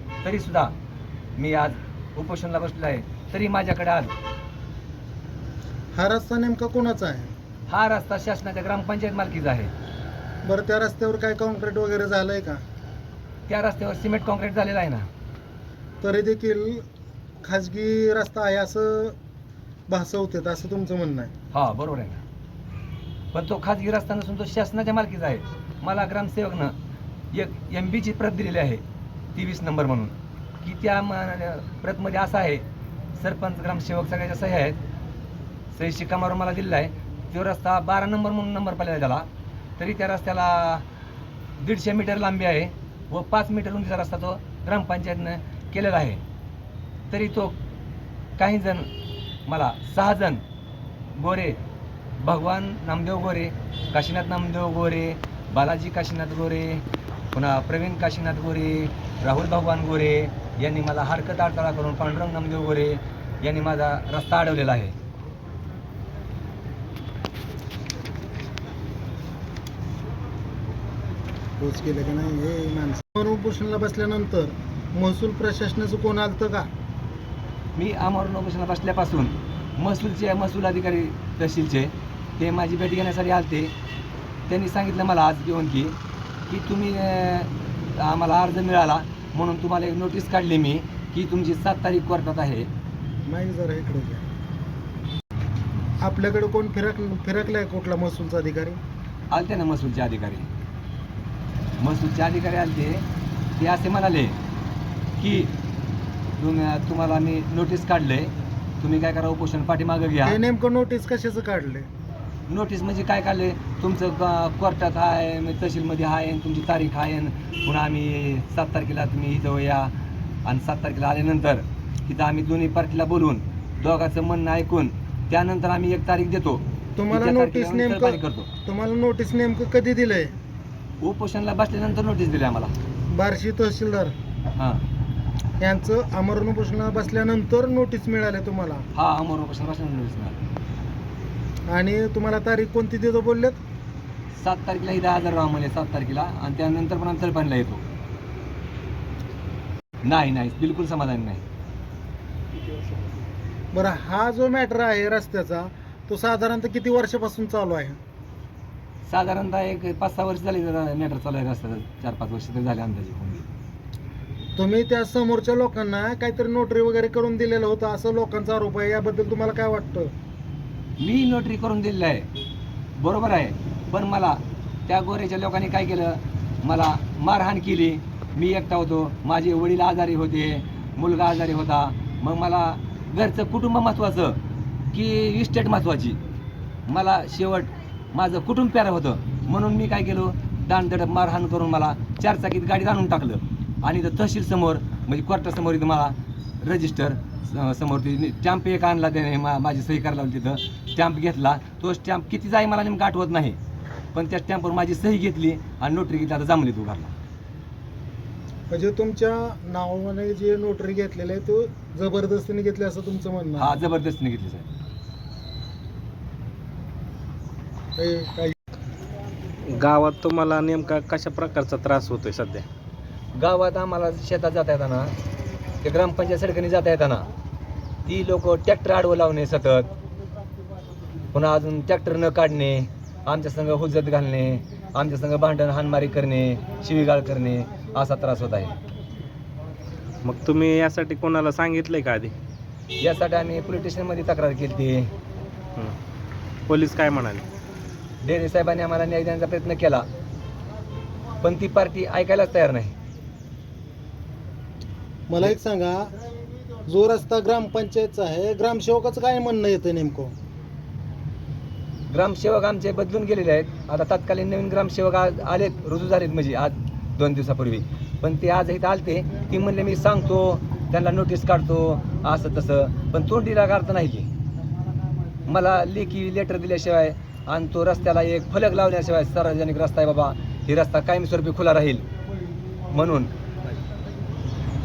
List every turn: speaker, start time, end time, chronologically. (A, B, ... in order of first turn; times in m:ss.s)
0:00.2-0:00.7 A
0:01.4-0:04.1 A
0:05.9-0:07.3 B
0:07.7-0:09.7 A
0:10.4-0:12.6 B
0:13.5-0:15.1 A
0:16.0-0:16.8 B
0:17.4-0:19.1 B
0:19.9-0:21.3 B
0:21.5-0:22.2 A
0:23.3-0:26.7 A
0:27.3-0:28.8 A
0:29.3-0:32.6 A
0:33.2-0:34.8 A
0:35.7-0:39.3 A
0:39.8-0:40.8 A
0:41.6-0:46.2 A
0:47.1-0:47.6 A
0:48.4-0:48.9 A
0:49.4-0:50.4 A
0:51.1-0:51.6 A
0:52.2-1:05.0 A
1:11.6-1:16.7 B
1:17.8-1:23.7 A
1:24.5-1:26.0 A
1:26.5-1:32.7 A
1:33.2-1:34.2 B
1:36.0-1:38.8 B
1:39.3-1:40.5 A
1:41.8-1:43.0 A
1:43.6-1:44.3 A
1:45.2-1:45.5 A
1:46.4-1:50.4 A
1:50.2-1:51.9 B
1:52.5-1:59.9 A
2:00.4-2:08.5 A
2:07.0-2:10.3 B
2:11.0-2:12.7 A
2:13.1-2:14.1 B
2:14.6-2:14.8 A
2:15.6-2:18.8 B
2:18.9-2:20.4 A
2:21.7-2:23.6 B
2:24.3-2:27.8 A
2:30.0-2:31.4 A
2:33.7-2:38.0 B
2:39.1-2:43.5 A
2:44.6-2:50.1 B
2:51.0-2:52.3 A
2:53.0-3:04.4 A
3:04.9-3:06.2 A
3:06.9-3:23.6 A
3:24.1-3:27.1 A
3:28.7-3:33.8 B
3:33.6-3:34.7 A
3:38.0-3:38.6 B
3:39.6-3:42.6 C
3:43.3-3:45.1 A
3:45.8-3:47.3 A
3:48.0-3:49.9 A
3:51.3-3:58.8 A
4:00.2-4:02.3 C
4:03.0-4:05.1 A
4:06.7-4:07.5 C
4:08.2-4:10.1 A
4:11.4-4:12.9 A
4:15.3-4:16.1 B
4:16.8-4:20.3 B
4:22.1-4:34.3 A
4:35.5-4:42.0 A
4:42.9-4:43.3 A